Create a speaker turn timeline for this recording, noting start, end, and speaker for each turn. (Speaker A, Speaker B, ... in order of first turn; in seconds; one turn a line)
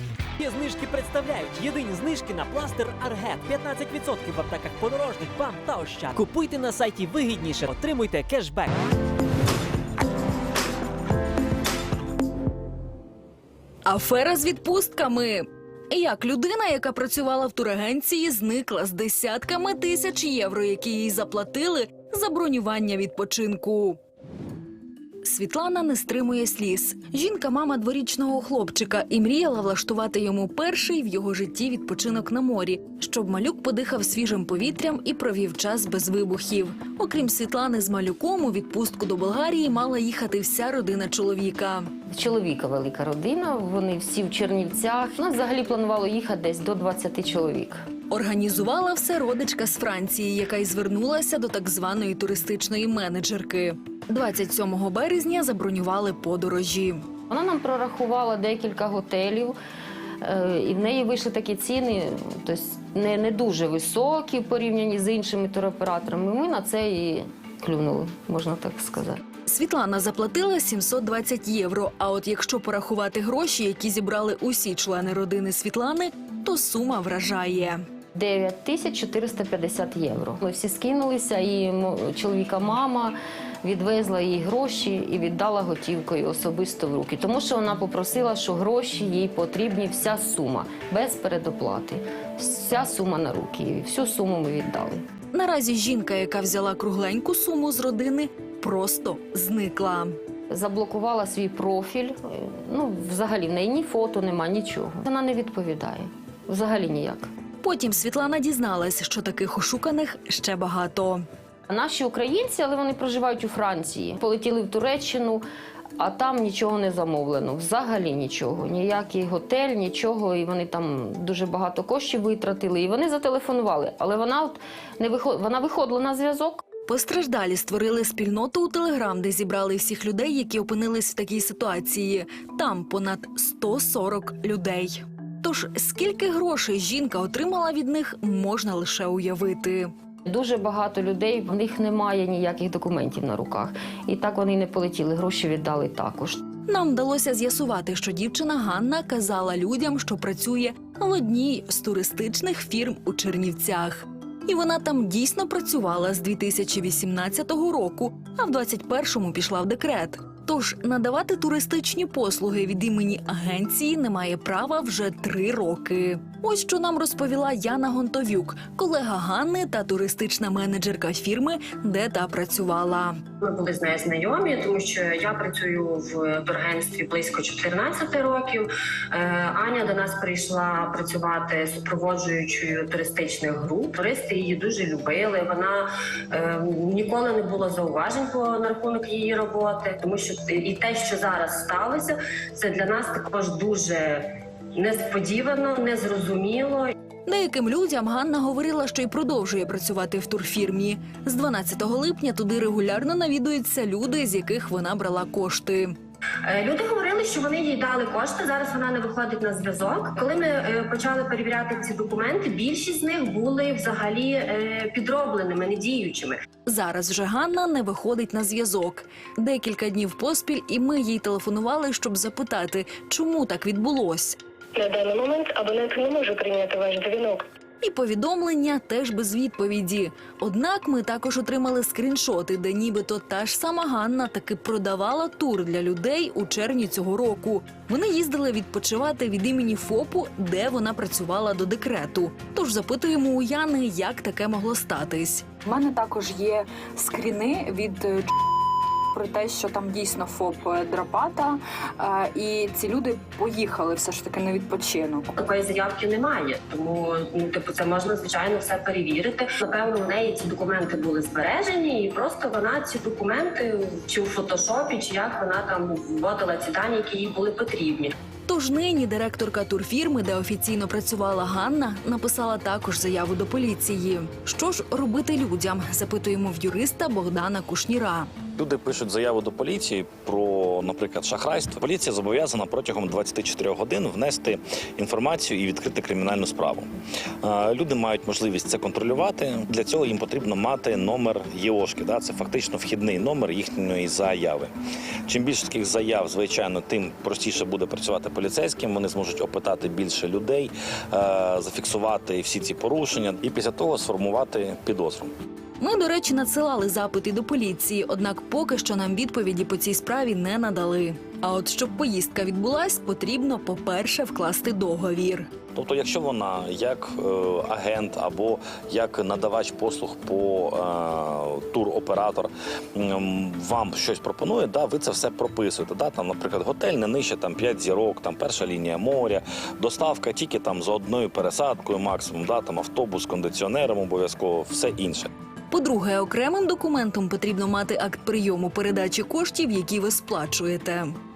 Speaker A: 0.4-8.7
Speaker B: 13.8-24.0
Speaker B: 25.2-41.9
Speaker C: 42.1-47.8
Speaker B: 48.1-57.0
Speaker C: 57.3-59.6
Speaker C: 60.2-69.2
Speaker B: 69.5-77.8
Speaker C: 78.2-95.0
Speaker B: 95.3-100.2
Speaker C: 100.5-107.3
Speaker B: 107.6-111.2
Speaker C: 111.7-115.4
Speaker C: 116.0-126.6
Speaker B: 126.9-139.9
Speaker C: 140.3-146.4
Speaker B: 146.7-173.2
Speaker D: 173.4-196.9
Speaker B: 197.3-206.0
Speaker D: 206.5-216.4
Speaker B: 216.7-224.4
Speaker E: 224.8-227.4
Speaker B: 227.8-245.5
Speaker F: 245.6-248.3
Speaker F: 249.1-255.3
Speaker D: 255.3-268.1
Speaker B: 268.5-278.3
Speaker G: 278.5-286.9
Speaker G: 287.4-294.7
Speaker G: 295.3-305.3
Speaker B: 305.8-315.5
Speaker G: 315.7-335.3
Speaker B: 335.7-341.1